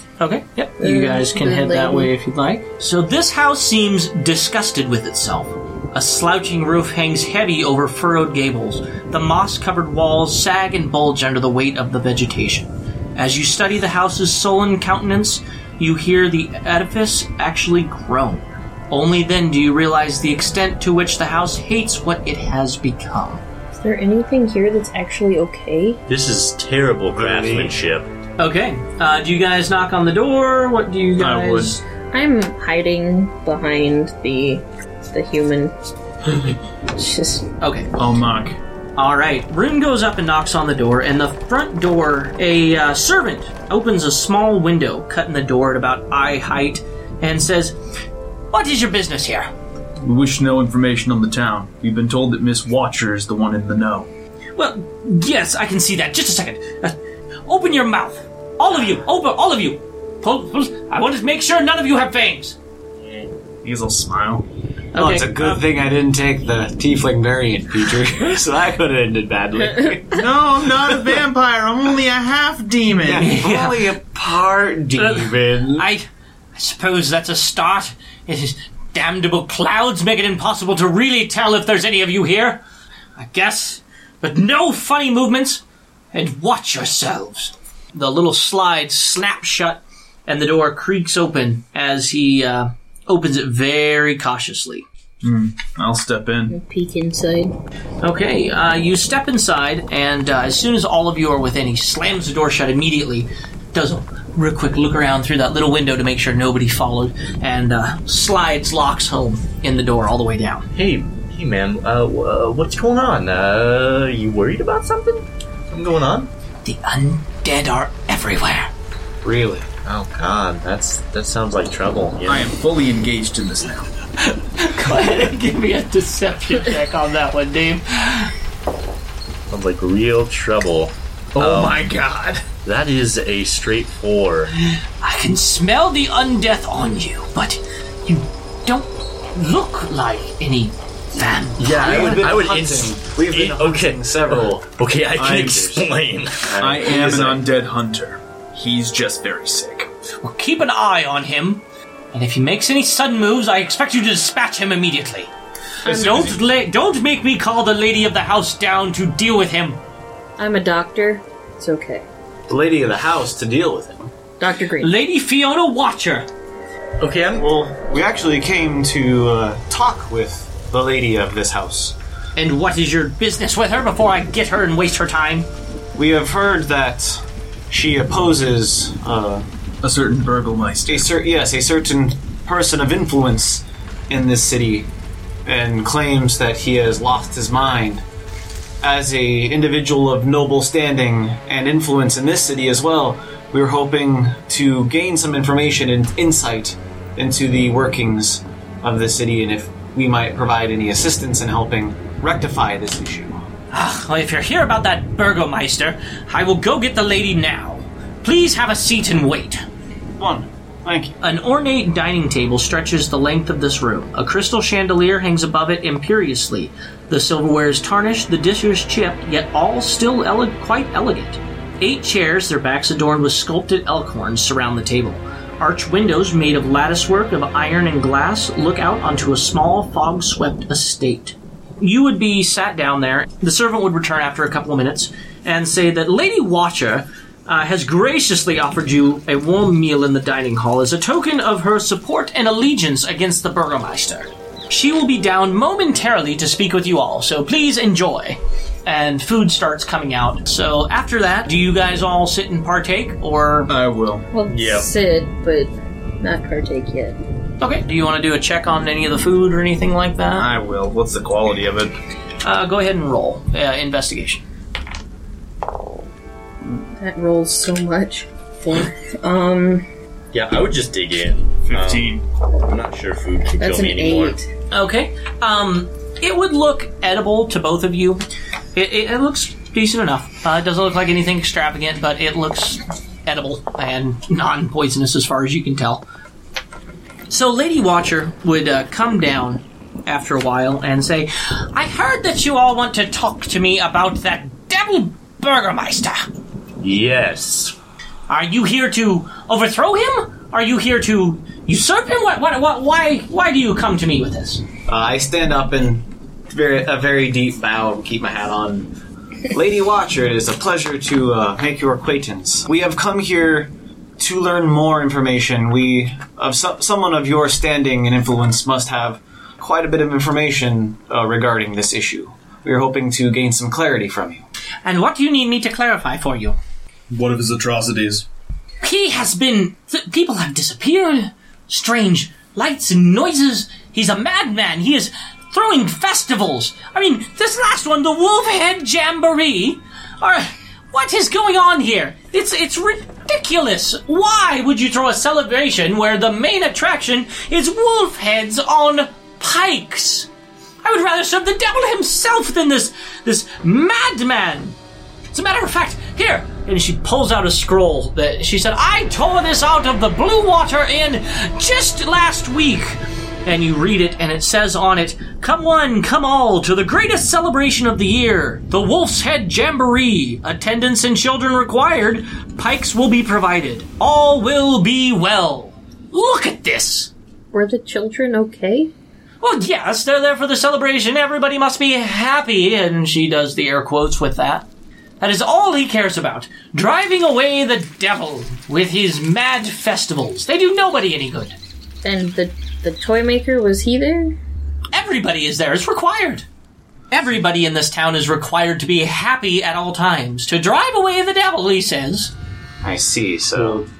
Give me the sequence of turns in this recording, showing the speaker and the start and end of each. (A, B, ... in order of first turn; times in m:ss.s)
0:00.2-0:23.4 A
0:00.8-0:02.1 B
0:23.7-0:26.0 B
0:26.1-0:28.1 C
0:27.2-0:27.7 D
0:28.4-0:31.8 A
0:31.2-0:31.8 E
0:32.1-0:35.8 B
0:36.9-0:37.4 B
0:37.6-0:37.9 A
0:37.9-0:38.6 E
0:39.0-0:47.8 A
0:48.5-0:49.5 A
0:50.0-0:54.1 E
0:54.6-1:02.6 A
1:03.6-1:04.4 E
1:04.9-1:05.6 A
1:05.0-1:10.2 D
1:10.1-1:13.3 E
1:13.0-1:15.9 D
1:13.2-1:13.9 A
1:14.9-1:22.6 A
1:23.2-1:34.8 A
1:35.2-1:36.6 E
1:36.5-1:37.5 B
1:38.0-1:50.7 A
1:50.7-1:56.3 C
1:56.6-1:58.7 A
1:59.2-1:59.7 D
1:59.8-2:02.5 C
2:02.2-2:03.9 E
2:04.2-2:08.3 A
2:09.5-2:11.9 C
2:11.4-2:12.0 E
2:11.7-2:12.4 A
2:12.6-2:14.5 C
2:15.0-2:22.2 A
2:21.6-2:27.4 C
2:21.6-2:24.6 D
2:25.2-2:25.8 D
2:26.5-2:27.2 D
2:26.6-2:29.9 E
2:30.2-2:35.3 A
2:35.8-2:39.8 A
2:35.9-2:36.3 E
2:40.4-2:42.0 B
2:42.5-2:44.1 D
2:44.4-2:44.9 B
2:44.8-2:46.3 A
2:47.0-2:47.4 C
2:47.3-2:52.0 D
2:52.4-2:55.5 A
2:55.9-2:59.4 D
2:59.8-3:01.1 E
3:00.9-3:04.9 D
3:05.4-3:08.0 D
3:08.8-3:23.4 D
3:23.7-3:29.6 A
3:30.2-3:31.2 D
3:31.2-4:13.7 A
4:13.7-4:14.3 E
4:14.3-4:17.2 B
4:14.5-4:14.9 C
4:17.6-4:20.5 A
4:20.3-4:21.9 E
4:22.4-4:24.4 A
4:26.6-4:29.8 B
4:30.3-4:32.1 C
4:31.6-4:32.2 E
4:32.6-4:34.4 C
4:33.6-4:34.5 B
4:34.7-4:38.2 A
4:38.7-4:46.0 A
4:47.3-4:56.3 A
4:56.8-4:57.7 C
4:58.3-5:04.6 A
5:04.9-5:08.9 D
5:09.5-5:24.4 D
5:24.8-5:26.6 A
5:27.1-5:28.2 E
5:28.8-5:50.3 A
5:50.8-5:54.8 A
5:55.3-6:17.1 A
6:17.5-6:18.9 B
6:19.4-6:24.7 A
6:25.2-6:31.6 A
6:32.0-6:34.4 B
6:34.9-6:36.4 A
6:37.1-6:42.3 A
6:42.8-6:43.9 D
6:43.6-6:43.8 C